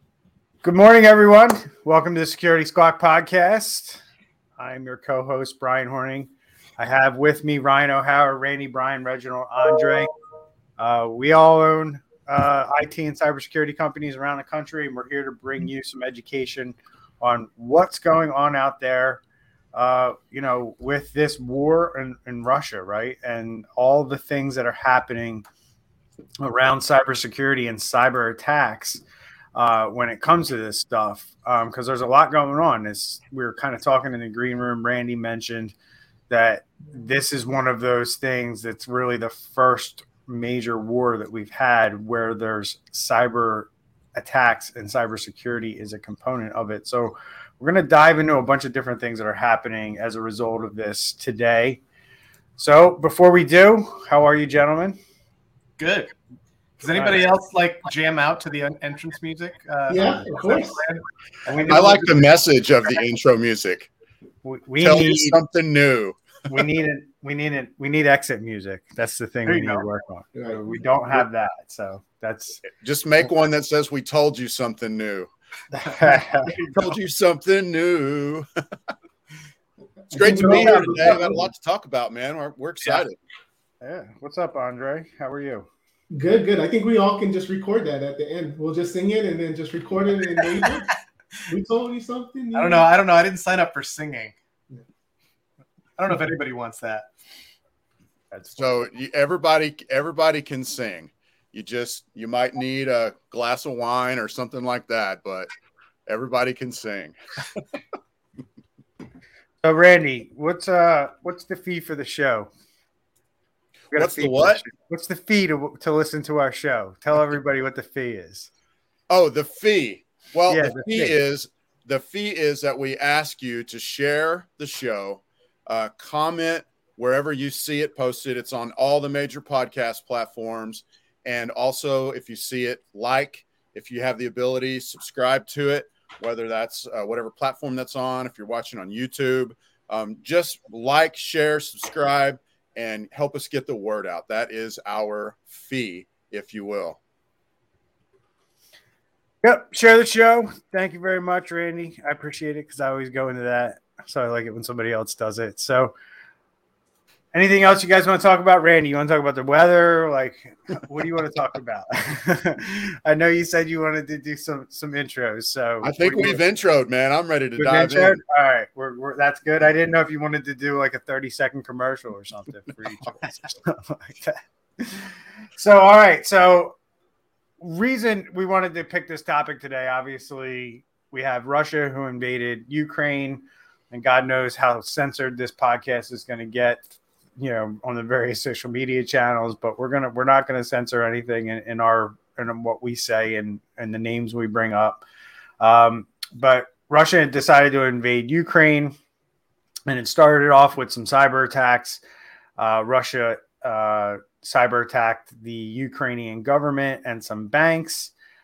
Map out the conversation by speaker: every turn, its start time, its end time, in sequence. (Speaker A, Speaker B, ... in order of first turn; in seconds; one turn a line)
Speaker A: 0.6-4.0
Speaker A: 4.6-10.1
Speaker A: 10.8-19.2
Speaker A: 19.7-25.4
Speaker A: 26.4-29.0
Speaker A: 29.5-35.7
Speaker A: 36.3-51.8
Speaker A: 52.6-55.0
Speaker B: 55.8-56.1
Speaker B: 56.8-62.0
Speaker A: 56.9-57.2
Speaker C: 59.9-60.8
Speaker A: 61.5-62.1
Speaker D: 61.6-63.9
Speaker A: 64.4-65.4
Speaker D: 64.8-66.6
Speaker A: 66.5-72.6
Speaker D: 72.7-75.3
Speaker A: 75.7-76.7
Speaker D: 76.5-78.5
Speaker D: 80.1-83.2
Speaker C: 80.1-81.5
Speaker A: 83.8-85.7
Speaker C: 86.1-92.9
Speaker B: 92.5-94.3
Speaker B: 96.0-97.0
Speaker D: 98.5-105.5
Speaker D: 106.0-107.6
Speaker A: 109.6-112.5
Speaker A: 113.9-118.5
Speaker D: 113.9-114.6
Speaker D: 119.1-147.0
Speaker A: 120.5-121.1
Speaker A: 149.4-155.9
Speaker A: 157.3-166.4
Speaker D: 165.8-168.2
Speaker A: 167.6-176.7
Speaker A: 177.6-195.0
Speaker A: 195.6-198.9
Speaker A: 199.9-202.0
Speaker A: 202.6-208.1